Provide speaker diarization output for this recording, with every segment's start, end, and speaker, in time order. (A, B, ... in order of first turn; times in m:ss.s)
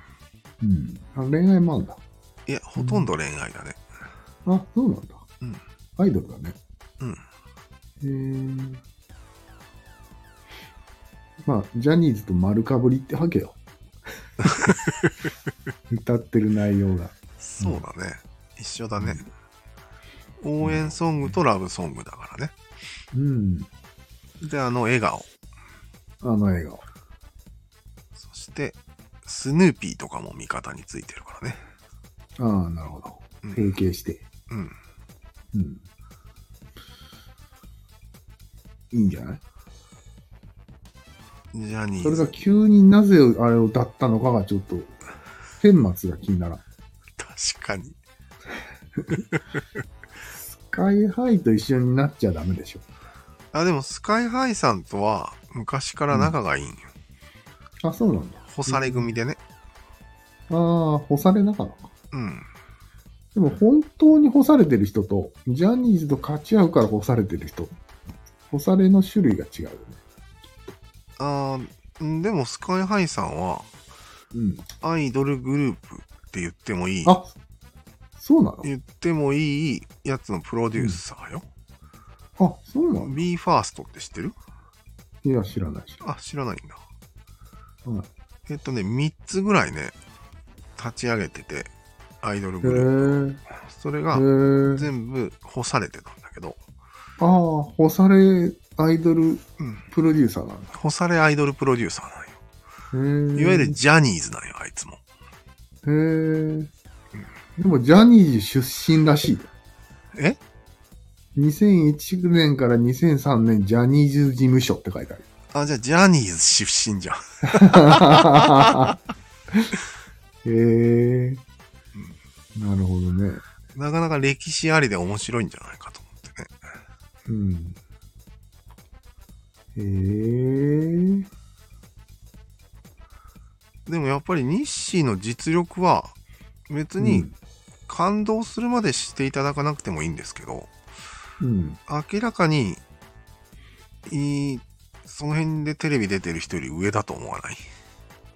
0:00.6-0:02.0 A
0:02.5-0:03.8 B
0:02.8-0:03.1 A
0:04.4-0:05.2 A
0:06.0-0:06.6 A
0:08.0-0:08.8 A
0:11.4-0:13.6 A
0:14.4-0:15.1 B
0:15.9-0:17.8 A
0:17.4-0:19.2 B
0:20.4-0:22.5 B
0:20.6-0:21.3 A
0:23.1-0:23.7 A
0:24.4-0:25.3 B
0:26.2-0:26.8 A
0:28.2-0:31.6 B
0:32.4-0:34.2 A
0:33.4-0:33.7 B
0:34.5-0:34.8 B
0:35.5-0:35.8 A
0:38.9-0:39.4 A
0:41.5-0:42.3 B
0:42.0-0:45.0 A
0:45.6-0:46.6 A
0:47.2-0:48.0 B
0:49.2-0:49.6 B
0:50.3-0:52.8 A
0:53.5-0:56.9 B
0:56.1-0:56.4 A
0:57.8-0:59.1 A
0:58.5-0:59.4 B
1:00.5-1:01.9 A
1:02.1-1:02.5 B
1:03.3-1:07.7 A
1:08.5-1:10.8 A
1:11.2-1:13.7 B
1:14.3-1:14.6 A
1:14.8-1:17.2 B
1:17.0-1:17.3 A
1:18.2-1:18.7 A
1:18.6-1:21.4 B
1:22.4-1:23.2 A
1:22.9-1:24.4 B
1:25.2-1:26.0 A
1:26.0-1:26.8 B
1:28.5-1:29.9 B
1:30.8-1:31.7 B
1:32.2-1:36.6 B
1:32.6-1:33.4 A
1:34.1-1:34.9 A
1:37.2-1:40.7 A
1:39.6-1:39.8 B
1:40.7-1:42.4 B
1:42.9-1:43.8 A
1:43.3-1:45.0 B
1:45.8-1:46.7 A
1:47.6-1:49.5 A
1:51.4-1:55.3 A
1:55.5-1:58.9 B
1:57.5-1:58.9 A
2:00.4-2:01.4 A
2:02.6-2:03.4 A
2:03.7-2:06.5 B
2:07.3-2:07.8 A
2:09.8-2:11.3 A
2:13.9-2:16.1 B
2:16.7-2:17.3 B
2:17.0-2:17.3 A
2:17.9-2:20.7 B
2:21.4-2:21.8 A
2:21.9-2:22.8 B
2:24.0-2:27.6 B